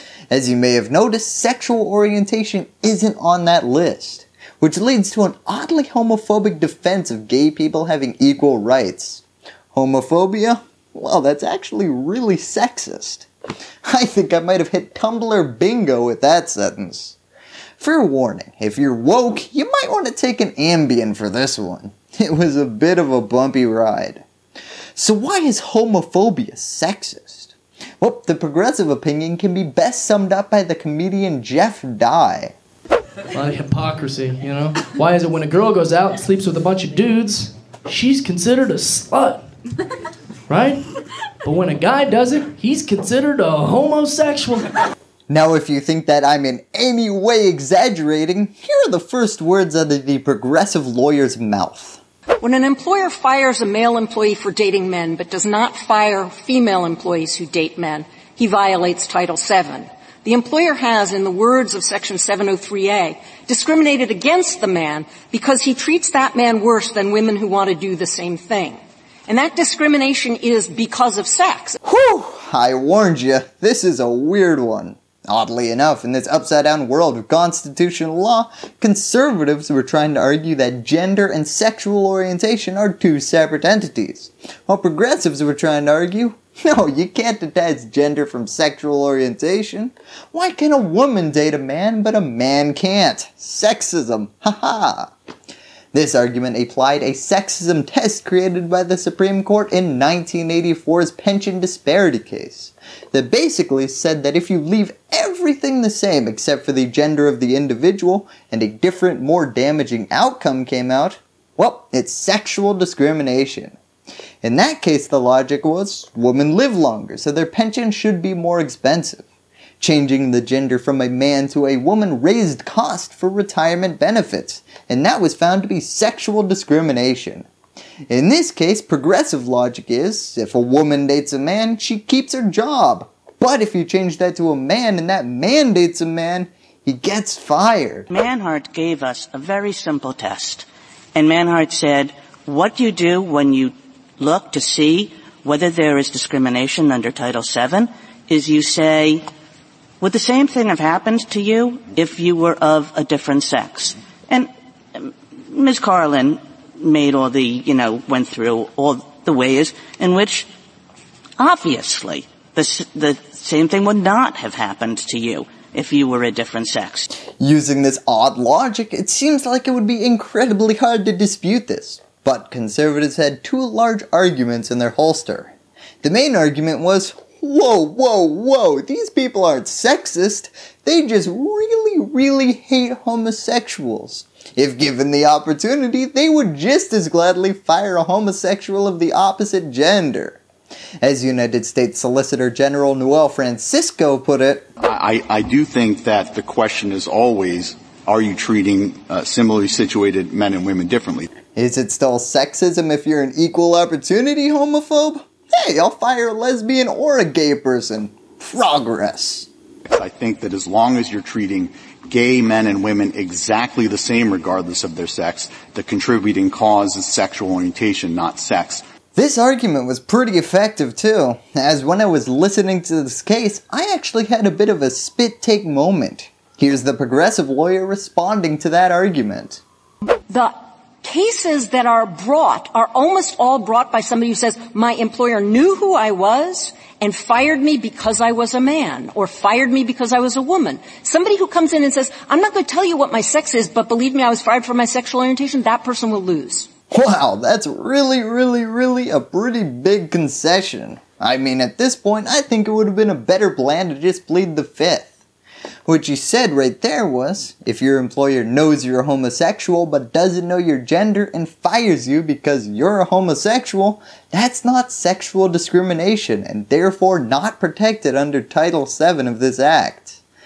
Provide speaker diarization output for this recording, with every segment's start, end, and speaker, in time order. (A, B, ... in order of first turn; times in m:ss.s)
0:00.3-0:13.3 A
0:13.8-0:17.2 A
0:17.8-0:24.2 A
0:25.0-0:32.5 A
0:33.3-0:39.4 B
0:40.5-0:40.9 B
0:41.4-0:44.7 B
0:45.3-0:52.0 A
0:52.4-1:11.8 C
1:11.8-1:35.1 A
1:35.9-1:53.8 A
1:54.4-1:59.3 A
1:59.8-2:07.5 A
2:08.1-2:18.1 A
2:18.1-2:29.2 D
2:30.0-2:40.4 D
2:41.4-2:47.0 D
2:47.4-3:10.4 A
3:11.0-3:14.7 A
3:14.8-3:21.3 E
3:21.5-3:29.5 A
3:29.9-3:38.8 E
3:39.1-3:49.6 A
3:51.0-4:06.7 C
4:06.9-4:15.1 A
4:15.8-4:30.2 A